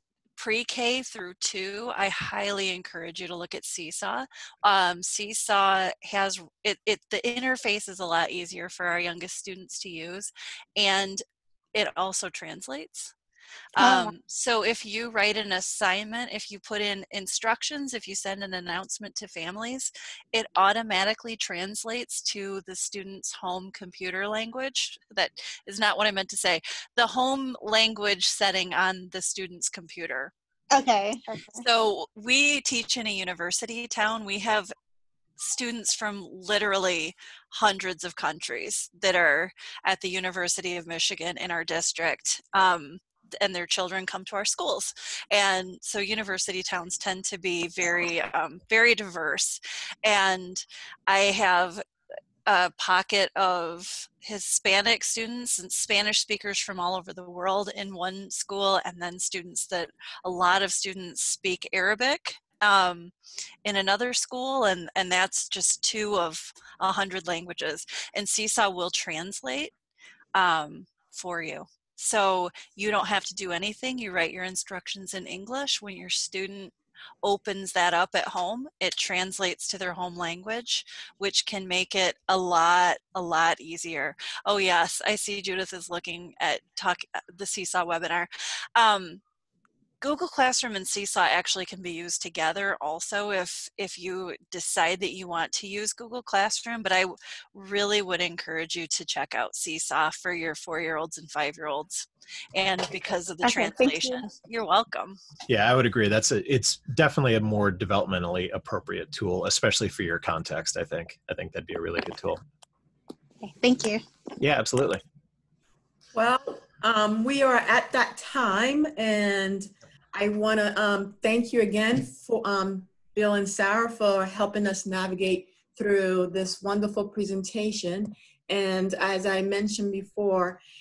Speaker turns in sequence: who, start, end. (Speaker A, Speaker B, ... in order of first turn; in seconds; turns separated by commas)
Speaker A: 0.4-11.2, Speaker A: 11.7-13.1, Speaker A: 13.7-30.3, Speaker B: 13.8-14.1, Speaker B: 30.7-31.6, Speaker A: 31.6-34.7, Speaker A: 35.4-51.8, Speaker A: 52.5-63.1, Speaker A: 63.6-69.7, Speaker A: 70.3-89.2, Speaker A: 90.0-105.2, Speaker B: 103.4-104.2, Speaker C: 105.5-112.4, Speaker B: 113.4-114.0, Speaker C: 114.4-115.0, Speaker D: 116.1-130.6